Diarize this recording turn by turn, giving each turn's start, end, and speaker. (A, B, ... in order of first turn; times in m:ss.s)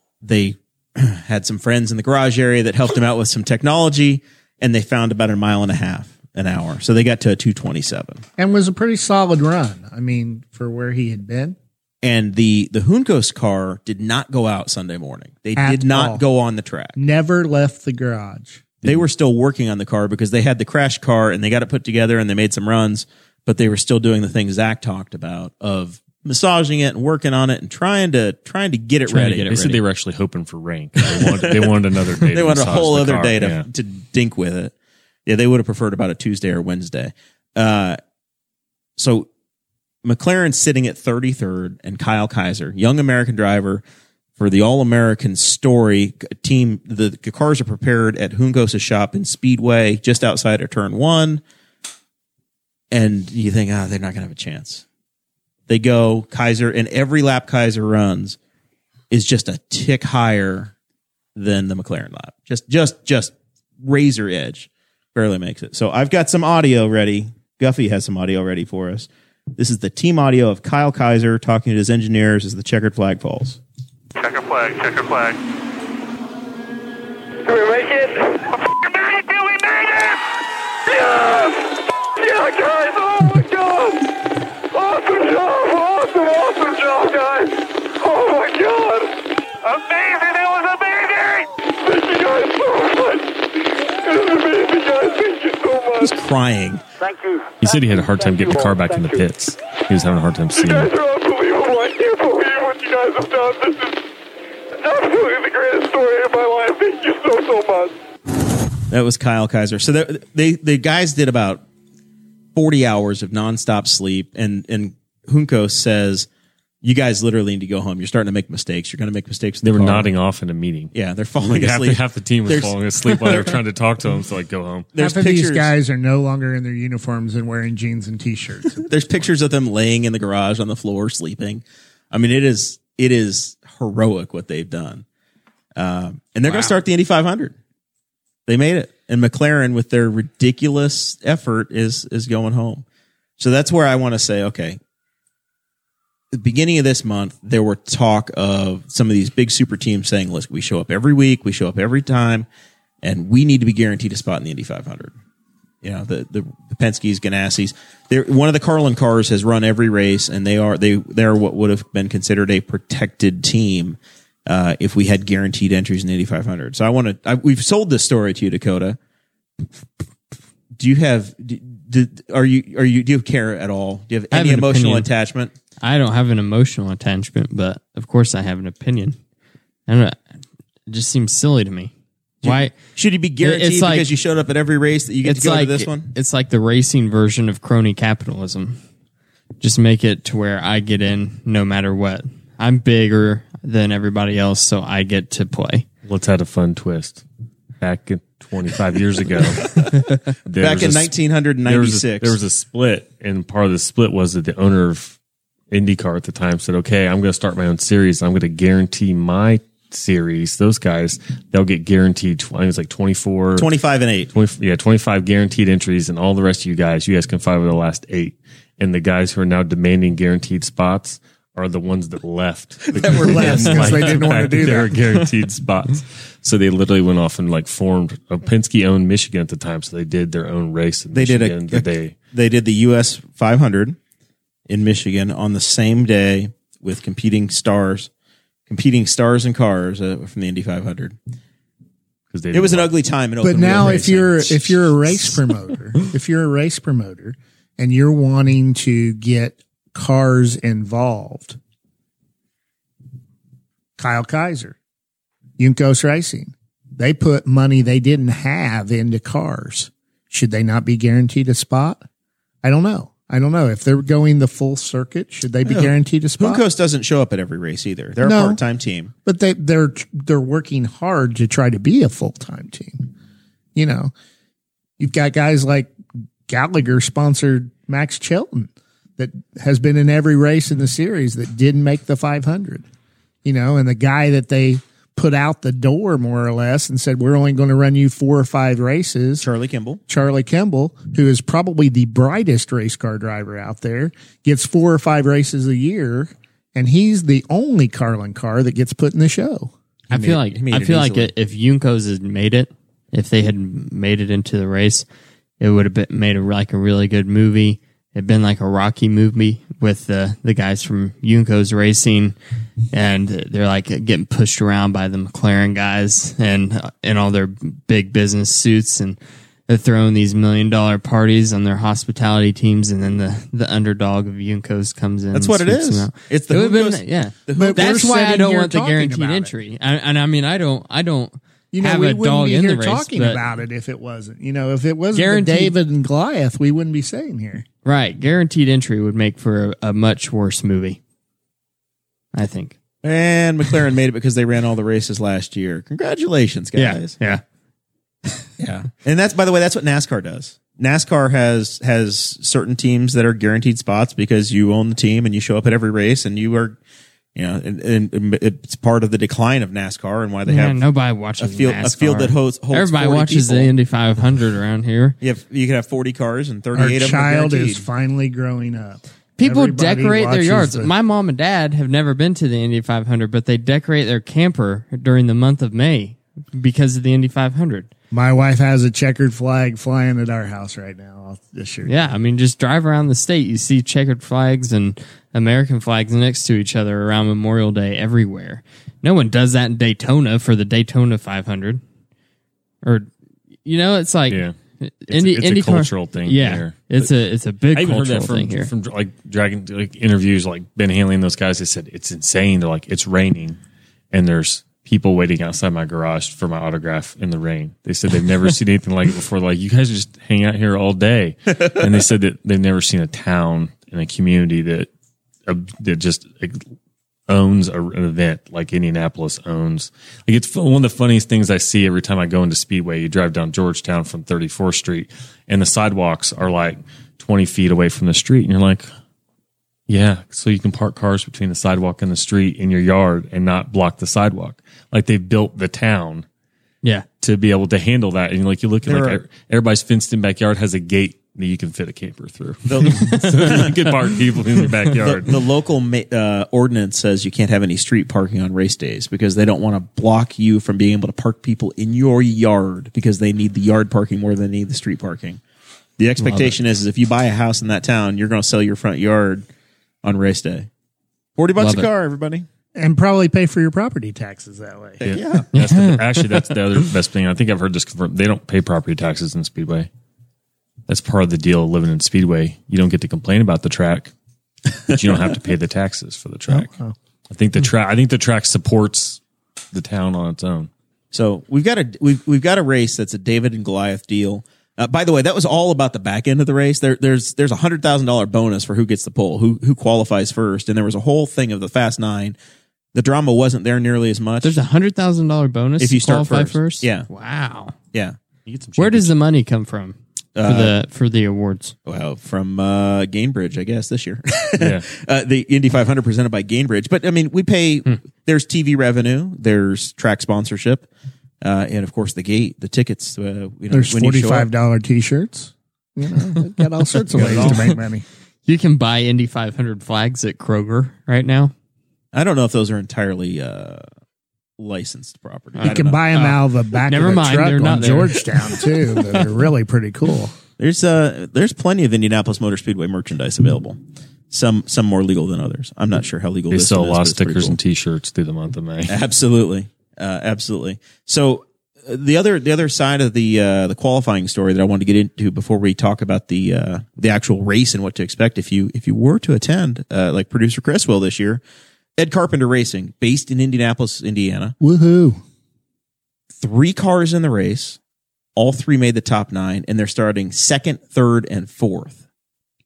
0:00.2-0:08.2 A
0:08.4-0:11.6 B
0:12.0-0:17.0 A
0:15.6-0:16.2 B
0:17.0-0:18.6 B
0:18.8-0:29.5 A
0:29.1-0:29.8 C
0:29.5-0:33.7 D
0:31.1-0:34.7 A
0:35.2-0:38.0 A
0:39.0-0:39.3 A
0:40.0-0:43.8 A
0:44.4-0:51.4 A
0:52.9-0:54.8 A
0:55.7-0:58.4 A
0:59.1-1:00.7 A
1:01.3-1:13.6 A
1:14.2-1:15.4 E
1:17.4-1:20.2 E
1:20.9-1:24.1 E
1:24.7-1:36.2 E
1:36.0-1:36.8 A
1:37.0-1:39.2 E
1:37.6-1:40.9 D
1:40.5-1:44.0 E
1:44.7-1:47.9 E
1:48.9-1:51.6 A
1:52.5-1:56.3 A
1:56.8-2:00.1 A
1:59.6-2:04.9 D
2:00.9-2:03.6 A
2:04.9-2:05.7 A
2:05.0-2:09.3 B
2:08.8-2:15.0 A
2:15.7-2:17.6 A
2:16.5-2:16.7 C
2:18.5-2:22.8 A
2:23.4-2:24.8 A
2:26.3-2:32.5 A
2:33.0-2:35.1 A
2:35.8-2:49.0 A
2:50.8-2:55.5 A
2:54.3-2:55.1 C
2:55.8-2:59.2 C
2:59.9-3:00.2 C
3:00.9-3:01.9 C
3:02.4-3:02.7 C
3:02.4-3:06.1 A
3:03.4-3:04.1 C
3:05.2-3:08.8 C
3:09.6-3:15.8 C
3:16.0-3:17.2 D
3:17.8-3:19.8 D
3:20.4-3:21.1 D
3:20.6-3:22.4 A
3:21.6-3:25.2 D
3:25.7-3:33.7 D
3:33.6-3:34.3 A
3:34.3-3:52.2 D
3:42.9-3:44.2 A
3:43.1-3:45.0 B
3:51.1-3:54.0 A
3:54.7-3:58.1 A
3:58.7-4:01.2 A
4:02.3-4:02.9 D
4:02.5-4:04.9 A
4:03.4-4:11.6 B
4:14.0-4:14.8 B
4:15.6-4:22.0 B
4:22.6-4:26.6 B
4:25.6-4:29.1 A
4:28.2-4:28.6 B
4:29.2-4:33.1 B
4:33.7-4:34.1 B
4:35.0-4:35.9 B
4:36.5-4:42.8 B
4:43.4-4:49.4 B
4:49.4-4:50.0 A
4:50.1-4:59.7 B
5:00.1-5:01.3 A
5:00.1-5:05.0 C
5:05.6-5:12.4 C
5:12.9-5:33.4 C
5:25.3-5:28.2 A
5:27.6-5:29.5 B
5:31.7-5:37.6 B
5:35.1-5:35.7 C
5:37.8-5:41.0 C
5:42.3-5:42.7 C
5:43.0-5:47.2 A
5:46.7-5:47.4 C
5:48.6-5:56.8 A
5:57.3-6:00.8 A
6:00.4-6:05.2 C
6:01.4-6:03.7 A
6:05.2-6:07.8 A
6:06.7-6:10.9 B
6:09.4-6:17.9 C
6:18.1-6:21.9 B
6:21.8-6:31.8 C
6:32.8-6:33.1 C
6:33.6-6:38.7 C
6:34.3-6:34.6 D
6:35.1-6:37.1 D
6:37.7-6:43.6 D
6:44.1-6:54.9 D
6:55.5-6:56.6 D
6:57.3-7:08.9 D
7:09.9-7:16.2 D
7:17.2-7:25.3 D
7:18.8-7:19.2 A
7:22.7-7:24.1 A
7:23.0-7:23.5 C
7:25.0-7:35.4 A
7:36.0-7:39.5 A
7:40.0-7:40.7 A
7:41.4-7:42.5 A
7:41.6-7:41.9 C
7:42.7-7:45.0 B
7:45.0-7:45.5 A
7:45.0-7:49.9 D
7:45.5-7:46.4 C
7:50.9-7:54.1 D
7:54.8-7:56.7 D
7:56.5-7:56.9 B
7:57.3-7:59.2 D
7:59.7-8:00.7 D
8:01.1-8:12.4 A
8:12.9-8:14.6 A
8:14.4-8:17.8 C
8:15.8-8:17.1 A
8:17.9-8:18.2 A
8:18.4-8:19.1 D
8:18.8-8:21.7 C
8:20.4-8:20.7 A
8:21.8-8:30.9 A
8:24.6-8:24.9 D
8:31.4-8:34.5 A
8:33.7-8:38.0 B
8:37.1-8:37.7 A
8:38.4-8:41.5 C
8:42.1-8:43.8 A
8:44.6-8:46.0 A
8:45.6-8:50.3 B
8:45.6-8:48.7 C
8:50.6-8:53.8 A
8:54.3-8:57.6 A
8:56.5-8:59.0 D
8:58.9-9:11.4 A
9:12.0-9:14.6 A
9:14.6-9:15.2 B
9:16.4-9:17.8 A
9:18.4-9:22.0 A